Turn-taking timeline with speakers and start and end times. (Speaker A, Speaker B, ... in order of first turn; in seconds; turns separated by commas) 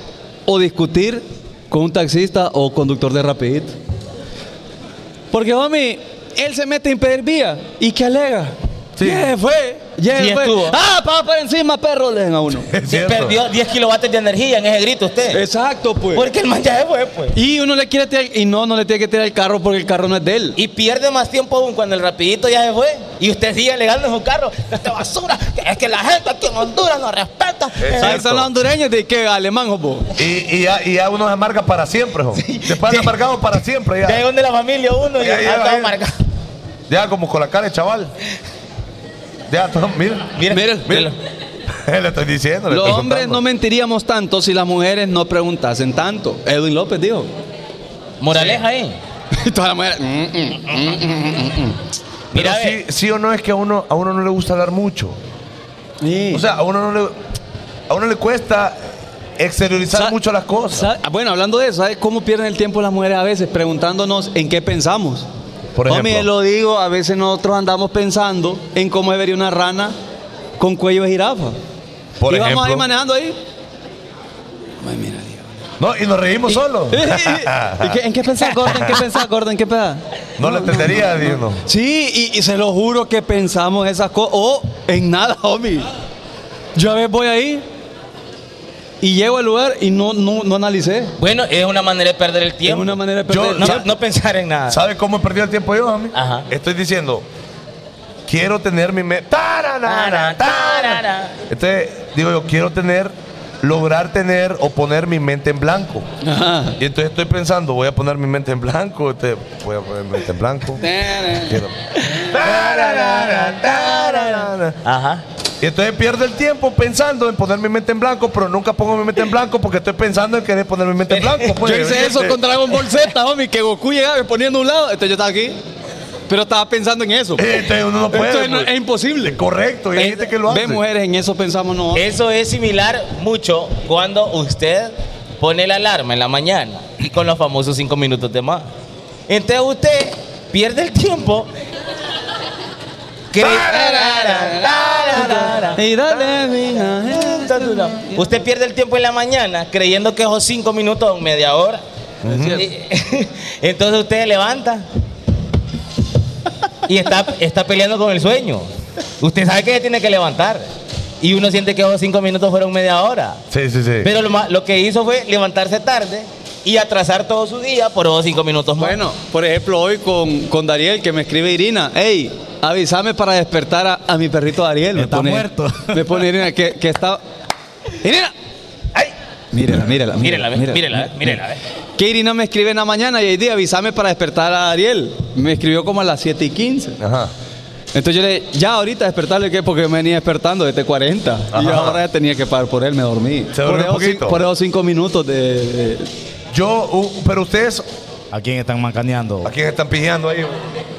Speaker A: 0.5-3.7, Speaker A: 5.3-12.7, Speaker B: 9.0-9.3, Speaker C: 10.1-10.8, Speaker B: 12.7-13.4, Speaker C: 12.9-15.4, Speaker A: 15.3-16.2, Speaker C: 16.1-17.3, Speaker A: 17.3-20.6, Speaker C: 20.6-28.2, Speaker B: 27.8-28.5, Speaker A: 28.0-30.1, Speaker B: 30.1-34.2, Speaker C: 32.4-33.1, Speaker C: 34.0-36.1, Speaker B: 35.2-35.9, Speaker B: 36.9-38.1, Speaker B: 39.5-41.1, Speaker C: 40.4-41.1, Speaker A: 40.5-40.9, Speaker B: 41.7-43.4, Speaker A: 42.7-47.3, Speaker C: 48.2-49.0, Speaker A: 49.3-51.8, Speaker B: 52.3-55.2, Speaker C: 52.3-52.8, Speaker A: 56.0-56.4, Speaker B: 56.3-57.1, Speaker B: 57.9-58.8, Speaker B: 59.4-60.9, Speaker A: 60.7-65.3, Speaker B: 65.7-66.3, Speaker A: 65.8-69.9, Speaker A: 70.6-71.6, Speaker B: 72.2-72.9, Speaker A: 72.3-73.3, Speaker A: 74.8-75.4, Speaker B: 75.8-78.0, Speaker A: 76.5-85.9, Speaker B: 78.6-79.0, Speaker B: 80.4-81.6, Speaker A: 86.8-87.6, Speaker A: 89.0-91.1, Speaker C: 91.2-93.0, Speaker A: 92.6-93.8, Speaker B: 93.3-93.9, Speaker C: 93.5-94.8, Speaker B: 94.7-97.2, Speaker C: 96.1-96.5, Speaker B: 98.3-106.1, Speaker C: 99.8-101.3, Speaker A: 106.2-106.8, Speaker B: 106.8-114.8, Speaker A: 110.8-111.6, Speaker C: 112.0-115.2, Speaker B: 115.6-122.4, Speaker C: 121.1-121.5, Speaker A: 121.6-125.6, Speaker A: 126.3-127.5, Speaker B: 127.4-130.8, Speaker A: 128.1-129.4, Speaker A: 129.9-132.0, Speaker C: 131.9-138.7, Speaker C: 139.3-141.5, Speaker C: 143.3-146.2, Speaker A: 143.4-148.2, Speaker C: 147.1-151.8, Speaker B: 152.2-152.6, Speaker C: 152.5-154.8, Speaker C: 156.8-158.7, Speaker C: 159.2-160.7, Speaker C: 161.2-163.4, Speaker B: 163.5-164.1, Speaker C: 164.0-169.0, Speaker A: 168.8-177.2, Speaker D: 174.9-176.2, Speaker A: 178.0-178.3, Speaker A: 179.5-181.1, Speaker C: 180.2-181.6, Speaker A: 182.0-187.0, Speaker B: 187.0-187.3, Speaker A: 187.9-196.1, Speaker B: 191.5-192.0, Speaker B: 193.5-194.4, Speaker B: 196.5-197.8, Speaker D: 198.3-199.5, Speaker B: 199.4-200.7